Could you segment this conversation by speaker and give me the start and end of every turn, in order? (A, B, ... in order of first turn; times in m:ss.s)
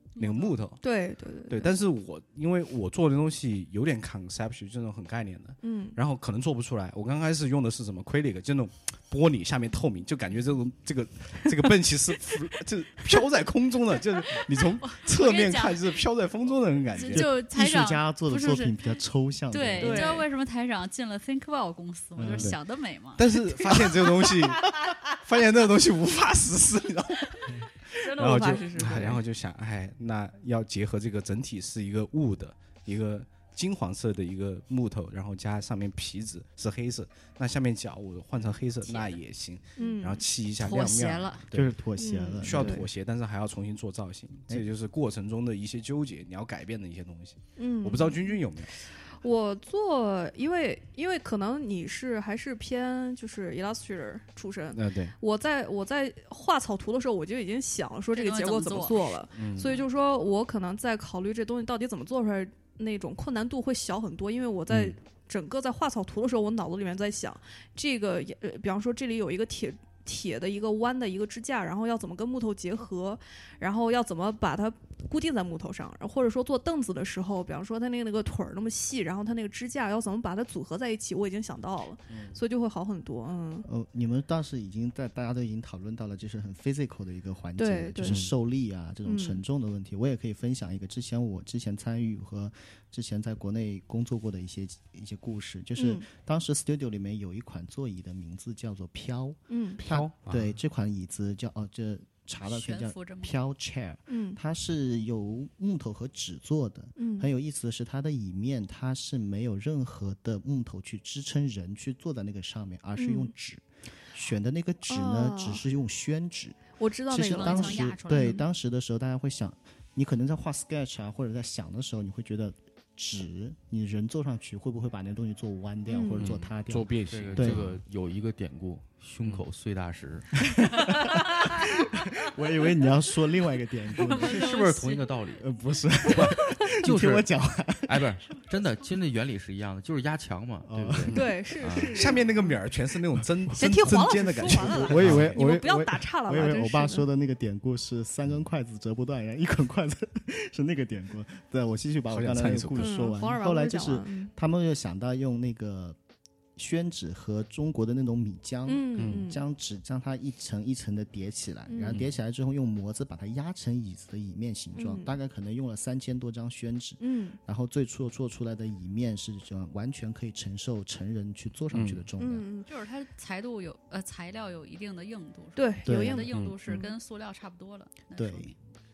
0:00.2-0:00.6 A
0:00.2-0:00.8 B
0:00.8-0:01.7 C
0:01.5-0:17.3 B
0:05.6-0:06.0 C
0:14.4-0:16.0 A
0:16.9-0:18.8 A
0:17.1-0:20.1 D
0:19.5-0:23.4 A
0:19.8-0:20.3 C
0:22.2-0:22.6 D
0:22.3-0:22.6 B
0:23.2-0:41.8 B
0:28.0-0:29.2 C
0:38.8-0:39.2 A
0:39.8-0:40.2 C
0:40.6-0:41.4 A
0:41.5-0:42.9 D
0:42.0-0:42.9 C
0:42.4-0:48.7 B
0:47.6-1:23.7 C
0:54.7-0:55.2 B
0:58.1-0:59.2 A
0:59.4-0:59.8 B
1:04.7-1:05.0 B
1:22.1-1:22.4 B
1:23.6-2:07.7 D
1:27.6-1:28.2 C
1:28.0-1:28.3 B
1:29.0-1:29.4 C
1:35.8-1:36.1 C
1:39.5-1:39.8 C
1:39.8-1:40.5 B
1:42.4-1:43.4 A
1:44.1-1:44.4 C
1:47.0-1:47.3 C
1:53.0-1:53.3 C
1:54.9-1:55.6 C
1:56.8-1:58.4 C
1:57.2-1:58.4 A
2:05.9-2:06.3 C
2:06.2-2:07.8 B
2:07.1-2:10.3 E
2:10.6-2:14.5 D
2:14.0-2:15.0 A
2:14.0-2:15.5 E
2:15.4-2:18.2 D
2:16.8-2:17.3 E
2:17.9-2:22.0 E
2:20.6-2:21.2 D
2:21.1-2:22.6 C
2:22.0-2:25.4 B
2:23.6-2:27.1 C
2:24.7-2:36.0 D
2:32.1-2:33.0 B
2:32.8-2:34.3 C
2:36.6-2:52.5 D
2:38.7-2:39.4 C
2:39.0-2:39.2 B
2:41.7-2:42.0 C
2:41.9-2:42.1 B
2:44.8-2:45.2 C
2:47.0-2:47.4 C
2:51.7-2:52.1 B
2:52.2-2:52.7 C
2:52.7-2:58.6 A
2:55.6-2:56.9 C
2:55.8-2:56.3 D
2:58.2-2:58.5 D